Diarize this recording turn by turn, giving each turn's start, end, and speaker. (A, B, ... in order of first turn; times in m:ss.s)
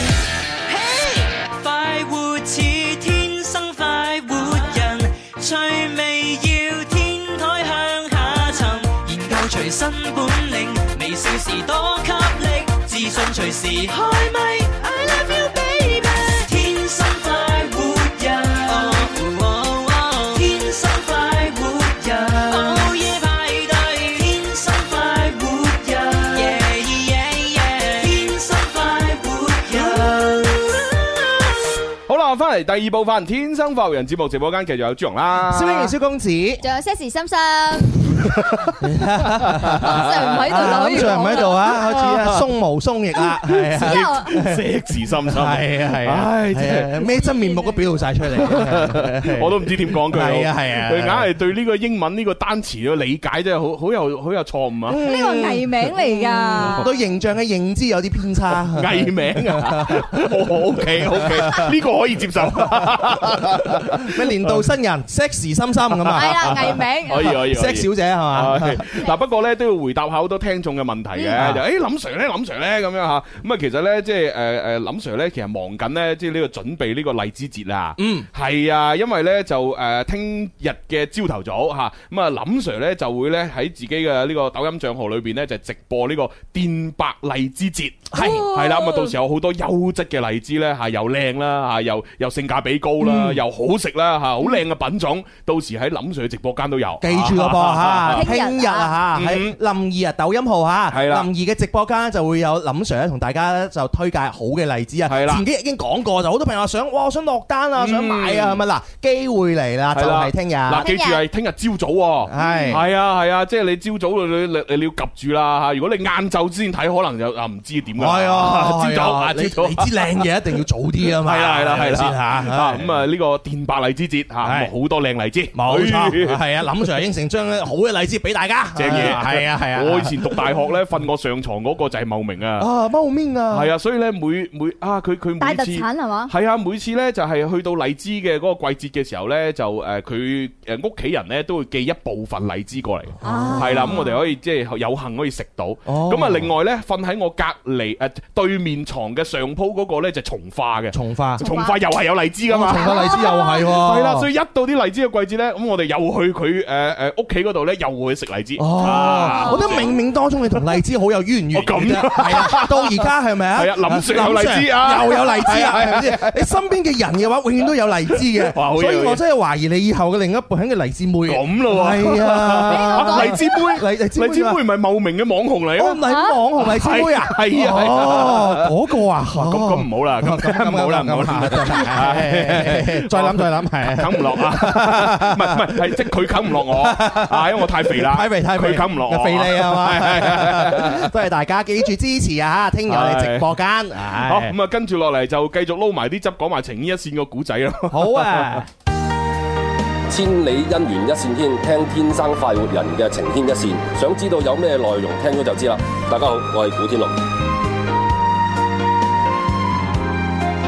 0:00.7-0:31.0 A
0:32.1-0:35.9 B
0:35.5-0:36.6 C
0:36.6-0:38.0 D
0:38.8-0:44.6 C
0:39.5-0:42.4 B
0:39.9-0:41.8 D
0:43.4-0:47.0 B
0:43.8-0:44.4 D
0:45.2-0:51.3 C
0:47.1-0:48.1 D
0:48.4-0:55.0 B
0:54.9-1:01.7 C
0:55.0-0:56.9 D
0:56.6-0:56.8 B
0:58.7-1:04.6 B
1:02.4-1:08.8 C
1:06.0-1:06.5 B
1:06.1-1:07.4 D
1:07.1-1:38.3 B
1:11.4-1:11.6 C
1:18.0-1:18.3 C
1:28.1-1:28.5 C
1:28.2-1:29.1 D
1:33.0-1:33.4 C
1:37.0-1:50.9 C
1:38.1-1:38.9 D
1:39.1-1:39.6 B
1:40.9-1:41.3 B
1:45.1-1:45.4 B
1:47.8-1:48.6 B
1:49.9-2:00.2 B
1:50.8-1:51.2 D
1:52.3-1:52.8 C
1:58.0-2:02.9 C
2:01.1-2:06.4 B
2:04.4-2:04.7 C
2:05.5-2:10.5 C
2:08.8-2:12.7 B
2:12.6-2:13.7 C
2:13.5-2:39.9 B
2:15.4-2:16.3 D
2:23.2-2:24.0 C
2:23.2-2:24.2 D
2:25.9-2:26.5 C
2:30.9-2:31.5 C
2:31.4-2:31.8 D
2:32.5-2:34.3 C
2:32.8-2:33.7 D
2:38.6-2:54.6 C
2:39.0-2:40.0 D
2:41.5-2:46.5 B
2:48.1-2:49.2 B
2:51.3-2:56.1 B
2:52.7-2:53.4 D
2:55.8-3:14.5 C
2:56.1-2:56.4 D
2:56.6-2:58.7 B
2:59.2-3:11.1 B
3:12.9-3:18.6 B
3:17.9-3:18.7 C
3:20.1-3:27.2 E